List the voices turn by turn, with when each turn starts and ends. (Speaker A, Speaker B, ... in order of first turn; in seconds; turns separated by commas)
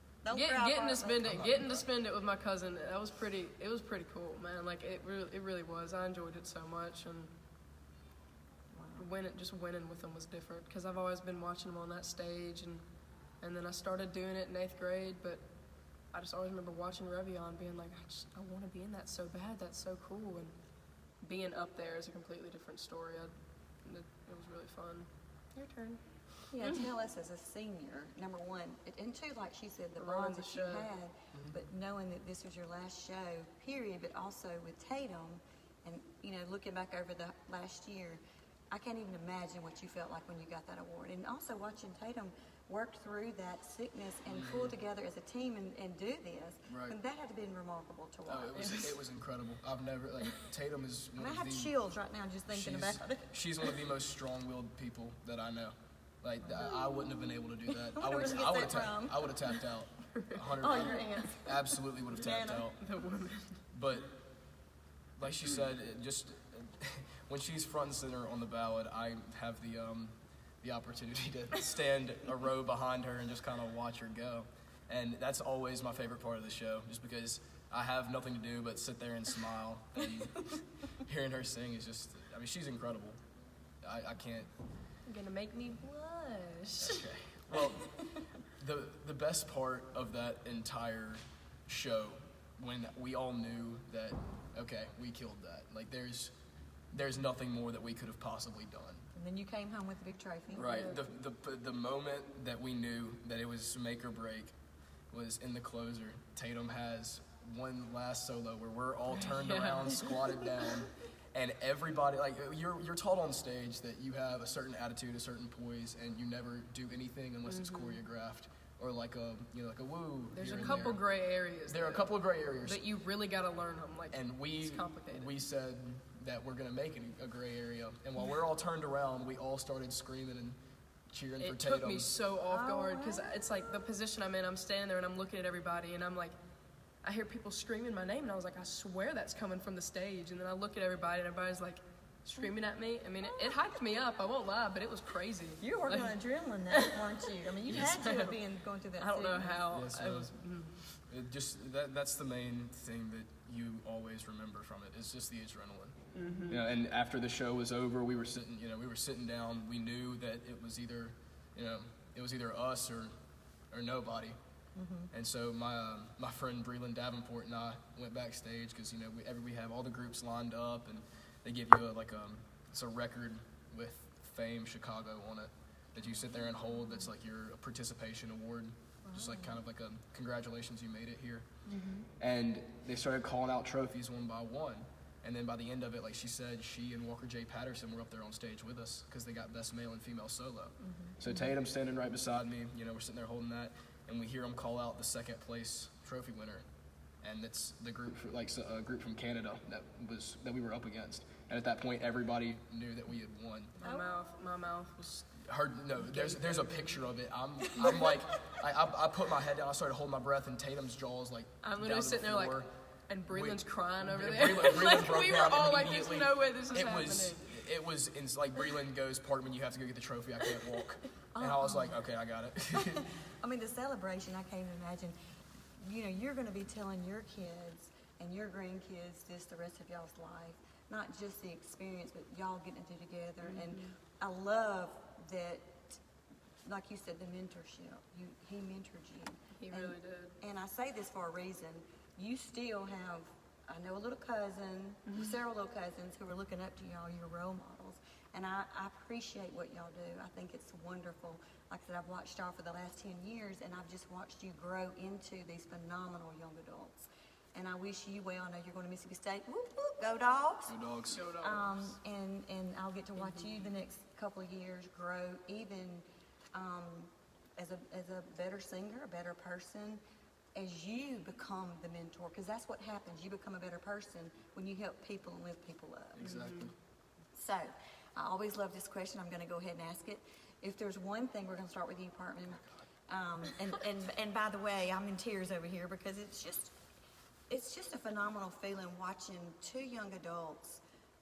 Speaker A: 0.2-1.4, Speaker B: 0.3-7.3, Speaker C: 1.2-1.9, Speaker A: 8.7-9.1, Speaker B: 8.9-12.9, Speaker B: 13.4-15.4, Speaker B: 16.1-20.6, Speaker B: 21.2-26.0, Speaker A: 26.5-48.8, Speaker B: 30.0-30.9, Speaker C: 44.3-44.8, Speaker C: 46.7-47.0, Speaker C: 48.3-51.7, Speaker B: 48.5-49.0, Speaker A: 51.1-53.3, Speaker C: 52.5-62.8, Speaker A: 56.4-57.1, Speaker A: 57.9-59.3, Speaker B: 60.1-60.9, Speaker A: 60.6-61.6, Speaker A: 62.1-62.7, Speaker B: 62.8-63.6, Speaker C: 63.7-64.2, Speaker C: 65.2-83.2, Speaker C: 83.8-84.5, Speaker B: 85.0-87.1, Speaker C: 86.8-96.3, Speaker C: 96.9-99.0, Speaker A: 99.1-101.0, Speaker C: 100.5-104.5, Speaker B: 100.5-101.0, Speaker C: 105.1-121.0, Speaker B: 109.2-110.8, Speaker B: 117.5-118.0, Speaker B: 120.3-125.3, Speaker C: 121.7-122.8, Speaker C: 124.1-130.6, Speaker C: 131.1-132.1, Speaker B: 131.4-136.4, Speaker A: 132.5-133.3, Speaker B: 137.0-146.1, Speaker A: 145.6-149.6, Speaker B: 146.7-148.4, Speaker B: 149.0-151.0, Speaker C: 149.7-150.3, Speaker C: 151.1-156.0, Speaker B: 156.1-156.6, Speaker C: 156.5-163.1, Speaker C: 163.7-164.4, Speaker A: 164.8-165.1, Speaker C: 165.1-181.5, Speaker A: 176.1-176.4, Speaker A: 179.1-179.6, Speaker A: 181.7-182.1, Speaker C: 182.2-196.6, Speaker A: 190.8-191.4, Speaker C: 197.2-203.8, Speaker B: 203.8-205.2, Speaker A: 203.8-204.4, Speaker C: 205.2-212.7, Speaker B: 206.0-207.0, Speaker A: 207.8-208.1, Speaker B: 211.6-217.6, Speaker C: 213.3-223.2, Speaker A: 221.3-222.0, Speaker A: 222.7-225.2, Speaker A: 225.8-236.0, Speaker B: 233.4-234.0, Speaker A: 236.6-260.8, Speaker B: 239.6-240.4, Speaker C: 260.7-261.2, Speaker B: 261.1-261.8, Speaker A: 261.3-270.0, Speaker B: 263.2-263.6, Speaker A: 270.5-276.3, Speaker C: 276.1-276.7, Speaker B: 276.2-276.7, Speaker A: 277.3-286.8, Speaker A: 287.5-290.8